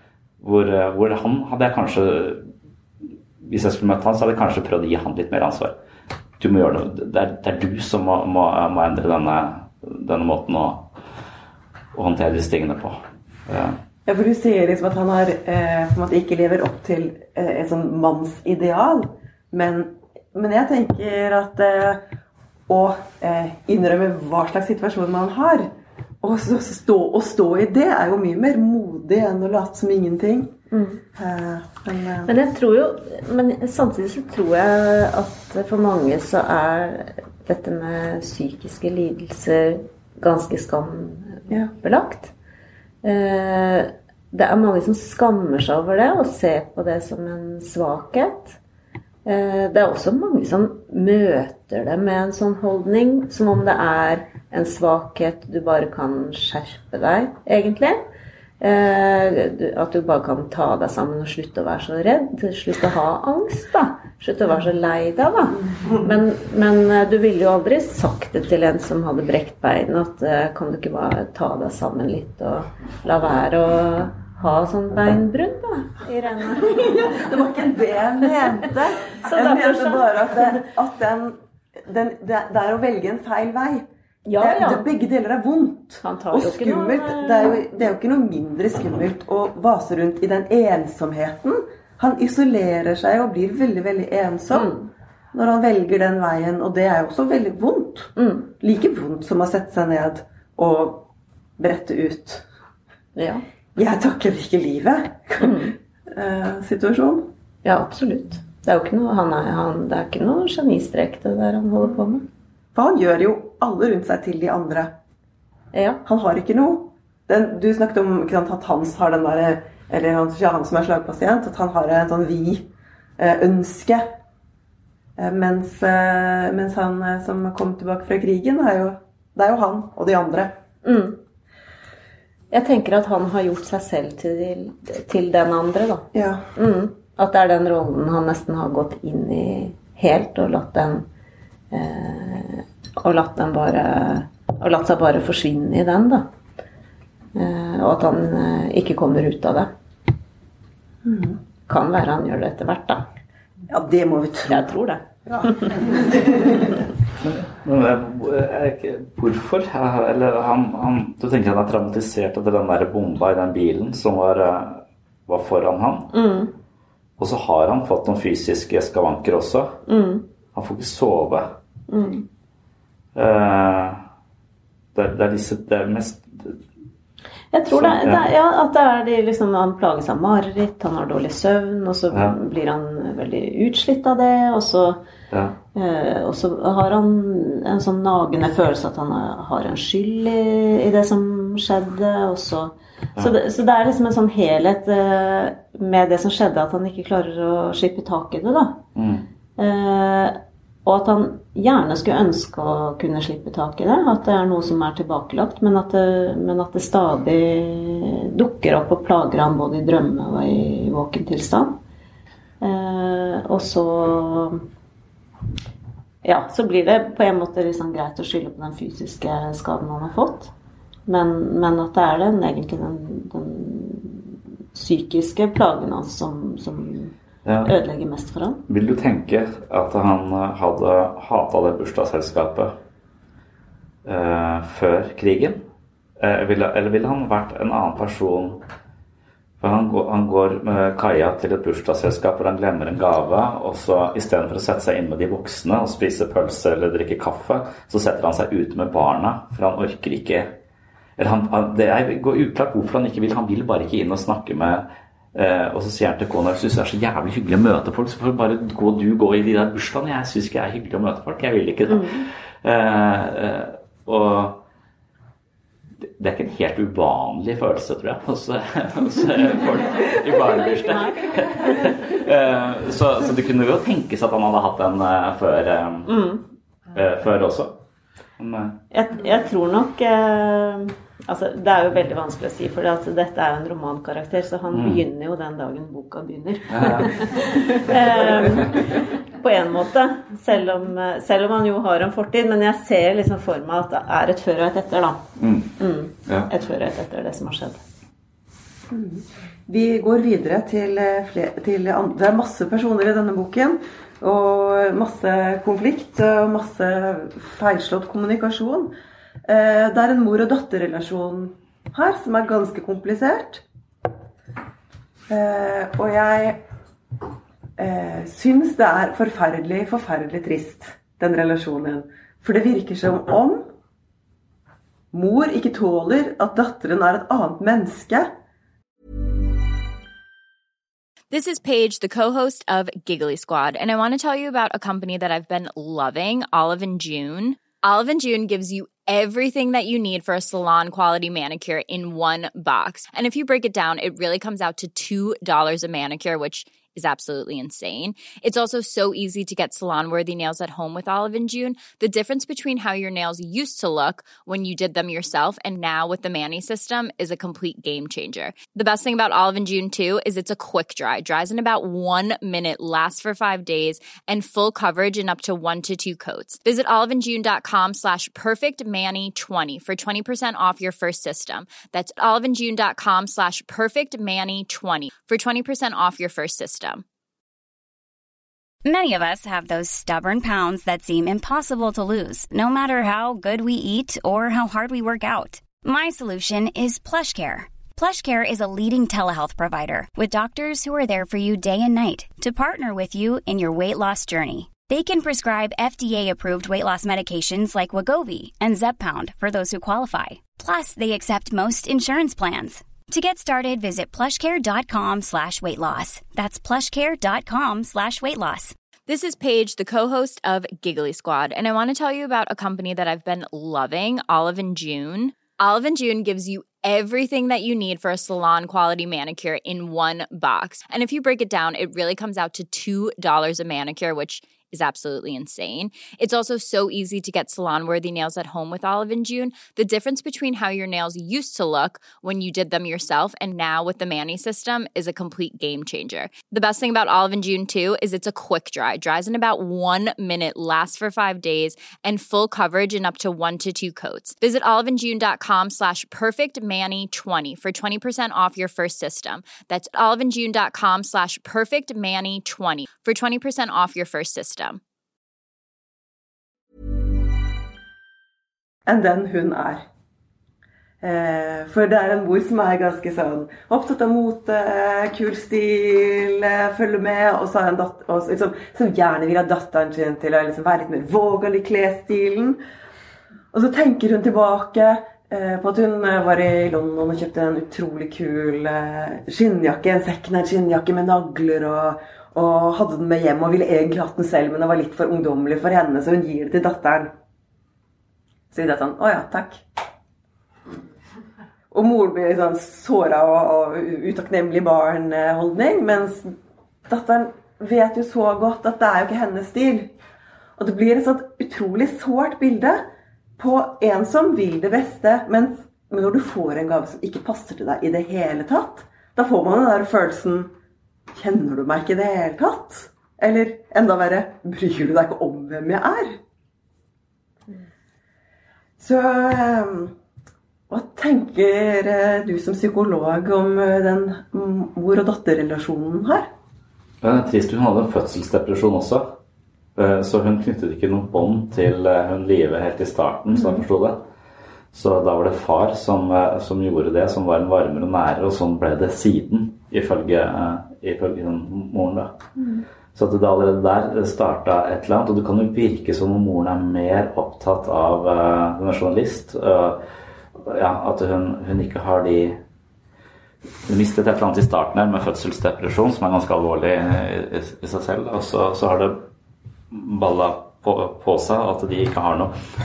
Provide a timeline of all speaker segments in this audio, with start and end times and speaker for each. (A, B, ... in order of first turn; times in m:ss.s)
0:00.4-0:02.5 A
0:03.4-0:05.8 A
0:06.4-0:10.9 A
0:12.0-0:13.8 A
0:14.1-0:22.0 B
0:22.7-0:25.7 B
0:26.2-0:30.5 B
0:30.7-0:31.0 C
0:31.2-0:32.3 B
0:32.3-0:42.3 C
0:43.0-0:48.6 C
0:49.2-0:58.0 C
0:58.6-1:17.3 C
1:16.6-1:23.9 B
1:19.1-1:20.6 C
1:24.3-1:24.8 C
1:24.4-1:34.7 B
1:26.0-1:27.6 C
1:34.5-1:34.9 C
1:35.3-1:42.4 B
1:38.2-1:38.5 C
1:43.2-1:43.4 C
1:43.8-1:47.3 B
1:45.4-1:45.7 C
1:47.6-1:52.3 C
1:52.7-1:54.9 B
1:55.7-1:56.0 C
1:56.0-2:02.6 B
2:03.2-2:04.0 B
2:05.2-2:10.5 B
2:10.8-2:11.2 C
2:12.5-2:21.1 C
2:16.1-2:16.4 B
2:21.7-2:26.3 C
2:27.4-2:29.7 C
2:31.1-2:31.4 B
2:31.7-2:33.0 C
2:33.7-2:34.7 B
2:34.5-2:35.8 C
2:35.3-2:36.7 B
2:37.2-2:46.1 A
2:46.1-2:46.5 C
2:47.2-2:49.8 A
2:49.9-2:50.3 C
2:50.5-2:51.6 A
2:51.9-2:52.3 C
2:53.1-2:54.0 A
2:55.0-2:56.6 A
2:57.5-3:05.0 C
2:57.7-2:58.2 A
3:02.1-3:02.4 A
3:05.3-3:05.6 A
3:05.8-3:18.8 C
3:19.0-3:19.2 A
3:19.6-3:31.8 C
3:32.6-3:34.6 C
3:36.2-3:40.5 C
3:41.1-3:47.1 C
3:47.4-3:47.7 A
3:47.6-3:48.6 C
3:48.7-3:52.8 A
3:54.0-3:55.6 A
3:56.2-3:58.6 A
3:59.6-4:10.6 A
4:11.2-4:24.6 A
4:21.9-4:22.3 C
4:26.1-4:36.1 A
4:30.5-4:32.0 C
4:36.1-4:36.4 C
4:36.9-4:37.8 A
4:38.4-4:38.8 A
4:38.9-4:55.2 C
4:44.7-4:45.0 A
4:46.7-4:47.1 A
4:55.4-4:55.7 A
4:55.8-4:57.8 C
4:58.9-5:08.9 B
5:09.5-5:13.6 B
5:15.3-5:16.6 B
5:17.8-5:23.6 B
5:25.1-5:28.3 B
5:31.3-6:17.0 D
6:18.8-6:48.8 E
6:49.1-7:34.8 D
7:38.9-7:39.8 B
7:41.0-7:52.6 B
7:53.5-8:07.1 B
8:08.5-8:09.6 B
8:11.7-8:16.4 B
8:16.9-8:19.9 B
8:20.6-8:22.8 B
8:23.4-8:30.5 B
8:31.2-8:36.2 B
8:38.8-8:39.9 B
8:40.7-8:46.3 B
8:47.0-8:49.2 A
8:49.8-8:54.0 A
8:53.3-8:53.6 B
8:54.7-9:02.2 A
9:02.9-9:09.8 A
9:10.4-9:12.4 A
9:13.7-9:19.1 A
9:19.7-9:22.3 A